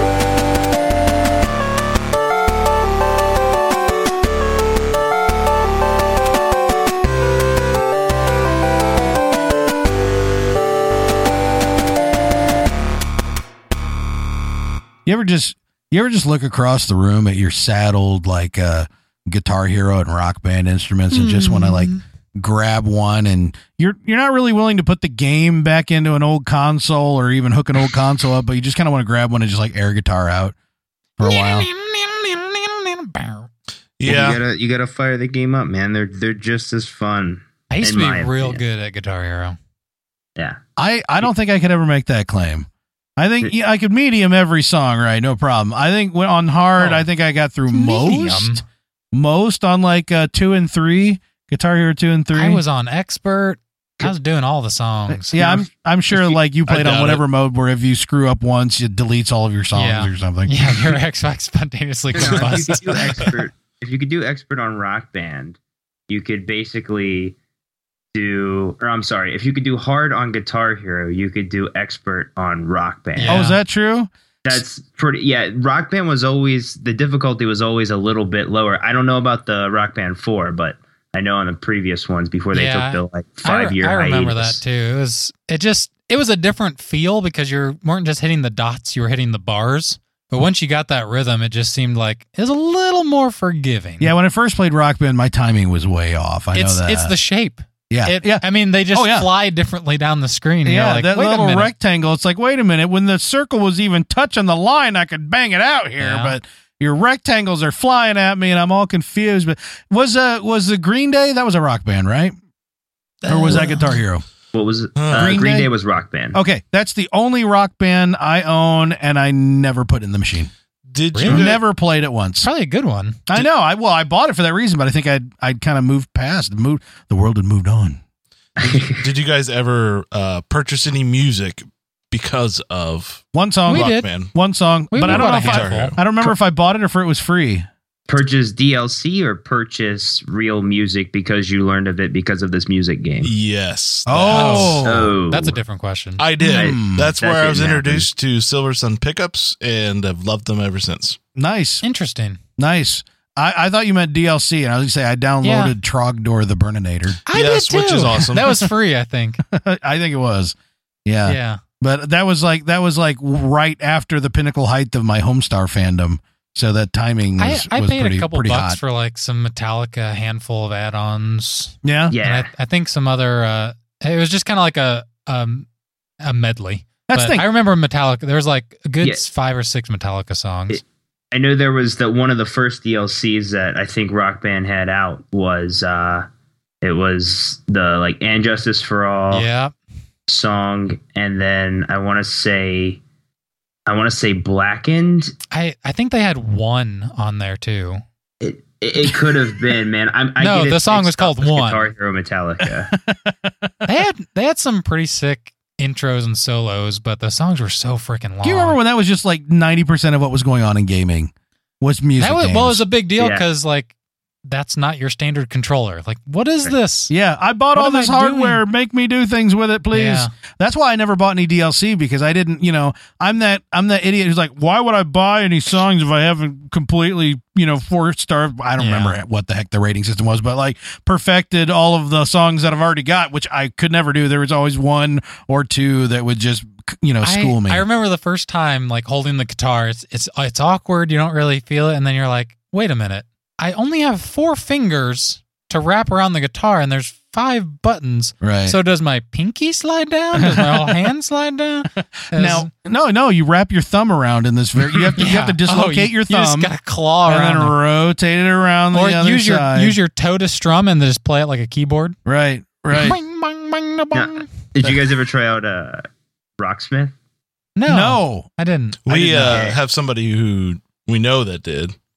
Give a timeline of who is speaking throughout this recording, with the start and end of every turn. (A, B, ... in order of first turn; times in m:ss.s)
0:15.1-0:30.5 A
0:21.1-0:22.0 B
0:31.2-0:31.7 A
0:31.2-0:33.5 B
0:34.0-0:34.4 C
0:34.0-0:38.6 D
0:37.7-0:39.6 B
0:40.8-0:52.6 A
0:46.8-0:47.0 B
0:47.7-0:48.6 B
0:52.3-0:55.4 B
0:55.1-1:00.9 A
0:55.4-0:57.2 C
0:59.7-1:03.2 B
1:02.2-1:05.6 D
1:02.2-1:03.3 C
1:06.1-1:07.4 D
1:08.1-1:13.5 D
1:13.2-1:13.6 B
1:13.3-1:14.6 A
1:14.5-1:24.6 D
1:22.5-1:34.1 B
1:34.0-1:37.1 A
1:36.5-1:41.7 B
1:37.9-1:39.3 A
1:40.7-1:52.4 A
1:46.0-1:46.4 B
1:53.2-1:54.0 B
1:53.3-1:54.2 A
1:54.5-1:56.4 D
1:55.0-1:55.4 C
1:55.1-1:55.7 A
1:56.3-2:00.5 A
2:00.9-2:01.6 C
2:01.2-2:01.5 B
2:01.2-2:02.5 A
2:02.4-2:03.5 B
2:03.3-2:08.0 A
2:08.6-2:09.0 D
2:08.6-2:14.3 C
2:13.3-2:17.7 A
2:13.7-2:14.1 B
2:14.9-2:16.0 B
2:15.1-2:16.3 C
2:18.1-2:23.3 D
2:23.2-2:24.8 C
2:24.1-2:25.1 A
2:24.3-2:26.6 B
2:24.8-2:25.6 D
2:26.2-2:31.2 C
2:26.4-2:28.1 D
2:26.5-2:27.1 A
2:31.4-2:31.8 A
2:31.8-2:32.4 B
2:32.6-2:37.2 A
2:35.4-2:35.8 B
2:37.3-2:39.4 B
2:37.3-2:38.7 C
2:39.4-2:40.6 A
2:41.1-2:48.8 A
2:41.2-2:41.6 B
2:47.4-2:55.7 B
2:51.8-2:52.2 A
2:52.1-2:52.5 D
2:56.2-3:00.8 B
2:57.1-2:57.4 A
3:01.3-3:06.2 D
3:06.8-3:09.5 D
3:09.3-3:09.7 B
3:10.3-3:13.0 D
3:13.9-3:15.3 D
3:15.5-3:18.0 B
3:18.4-3:22.9 D
3:20.4-3:21.8 B
3:22.6-3:23.9 A
3:23.9-3:28.8 B
3:28.4-3:32.8 A
3:32.2-3:33.9 B
3:33.2-3:33.4 D
3:34.5-3:37.1 B
3:37.1-3:57.8 A
3:37.7-3:38.6 B
3:39.9-3:40.3 B
3:48.8-3:49.2 B
3:57.2-4:12.7 B
4:08.4-4:08.8 A
4:10.4-4:11.0 A
4:12.0-4:16.7 A
4:15.2-4:17.8 B
4:17.3-4:20.0 A
4:18.9-4:22.2 B
4:22.3-4:23.2 A
4:22.9-4:24.9 B
4:24.1-4:26.0 D
4:26.6-4:27.2 D
4:27.8-4:29.1 B
4:27.9-4:28.5 A
4:29.0-4:32.0 C
4:29.1-4:29.6 A
4:29.4-4:29.8 D